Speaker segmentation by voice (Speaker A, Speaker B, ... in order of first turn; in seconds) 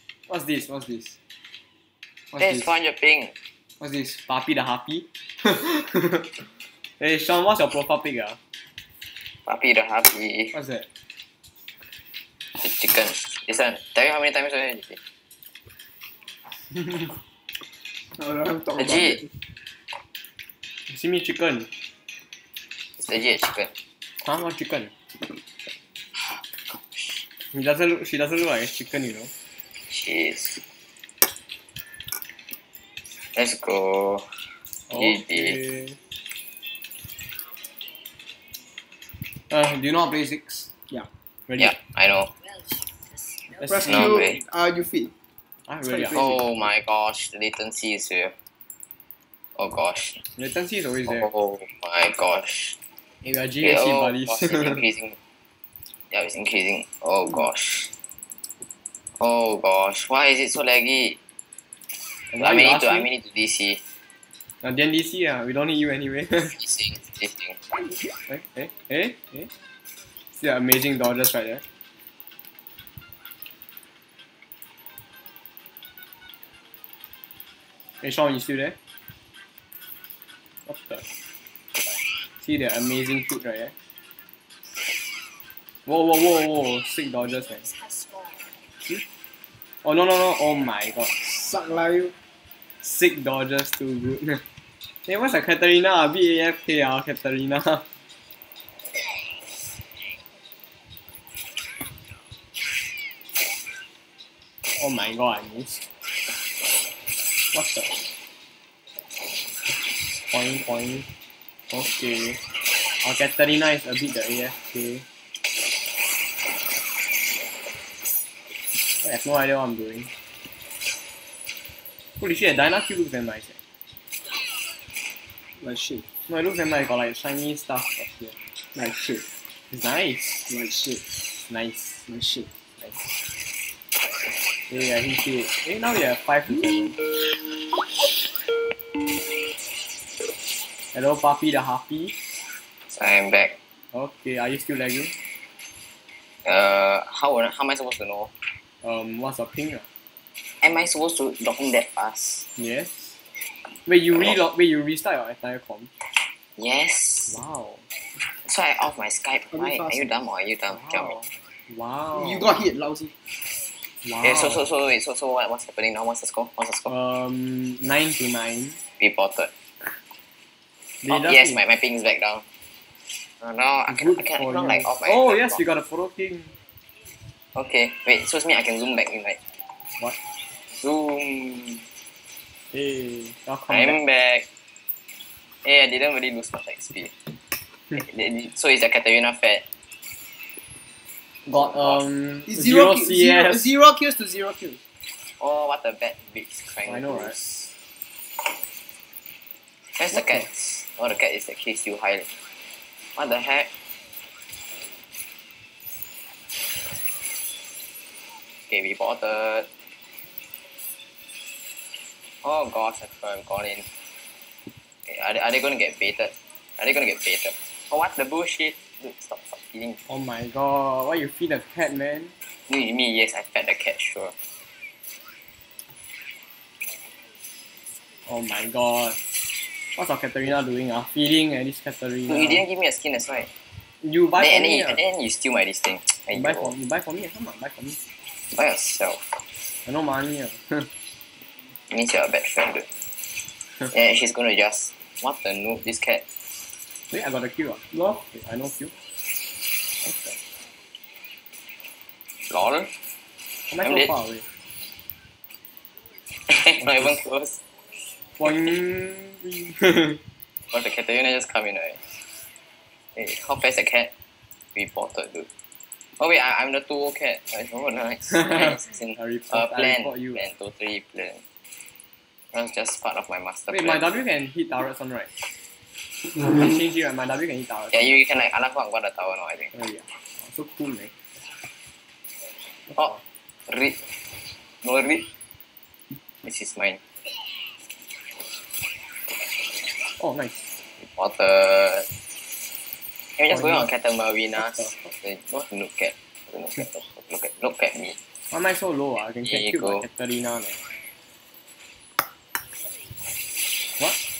Speaker A: 0.3-1.2, 2.3-2.7, 3.8-6.5, 7.0-8.4, 10.5-10.9, 20.9-21.7, 24.2-24.9, 27.5-29.3, 34.9-36.0, 39.5-40.7, 41.5-41.8, 43.6-44.2, 45.7-46.4, 50.4-51.3, 53.2-54.8, 62.3-63.1, 64.6-66.6, 68.3-69.5, 70.4-71.6, 78.0-78.8, 80.7-81.0, 82.4-83.7, 85.8-87.7, 89.8-91.1, 92.8-94.4, 95.0-97.8, 104.8-105.8, 107.5-107.9, 110.3-111.1, 111.7-112.4, 113.0-115.0, 119.0-120.1, 122.2-123.6, 126.3-128.4, 129.7-130.5, 131.5-132.1, 132.8-133.1, 134.7-137.0, 140.9-142.1, 143.9-145.1, 148.8-149.8, 152.6-153.2, 153.8-155.9, 157.3-157.8, 160.7-162.5, 164.0-164.7, 166.8-168.8, 171.0-171.6, 173.9-176.5, 182.7-184.0, 191.4-193.7, 196.8-197.3, 200.1-200.5, 220.1-222.3, 228.2-229.2, 229.9-232.6, 234.0-235.0, 236.3-238.0, 239.8-240.9, 247.1-248.9, 250.0-250.4, 253.7-254.4, 256.8-257.2, 258.4-260.2, 268.3-270.4, 273.7-275.3, 276.3-278.2, 279.7-281.1, 290.2-290.7, 293.5-293.9, 294.6-295.1, 298.5-300.8
Speaker B: 2.4-3.3, 9.4-10.5, 12.6-15.0, 18.8-19.2, 23.0-23.7, 26.3-27.2, 29.9-30.6, 33.3-34.3, 34.9-35.6, 41.6-42.3, 43.9-44.4, 46.1-48.3, 49.5-50.2, 51.1-52.8, 53.6-55.2, 56.1-57.9, 59.2-61.2, 62.4-63.8, 66.4-67.6, 142.9-143.6, 146.4-148.4, 150.6-152.5, 156.6-157.4, 158.3-161.2, 164.2-166.9, 169.0-169.5, 171.1-172.4, 173.4-175.6, 177.5-179.4, 180.8-181.8, 183.7-184.5, 185.6-187.2, 187.9-189.6, 191.5-192.0, 195.4-197.8, 199.9-202.3, 203.2-203.7, 208.7-209.7, 212.4-213.8, 215.1-220.0, 222.7-224.3, 232.3-233.5, 234.4-236.7, 238.5-239.4, 241.9-242.9, 243.8-246.2, 252.5-252.9, 253.8-254.1, 256.5-257.6, 260.7-262.2, 263.1-264.1, 264.7-265.5, 266.2-271.4, 272.5-274.1, 277.9-279.7, 282.9-284.0, 284.8-285.3, 286.4-287.0, 291.0-292.1, 293.4-298.2, 299.4-300.0
Speaker C: 18.2-19.3, 43.6-45.1, 45.8-46.4, 91.2-92.1, 125.6-126.0, 128.7-129.3, 130.5-131.0, 132.1-132.5, 159.5-160.1, 162.1-163.1, 192.5-194.8, 247.9-248.2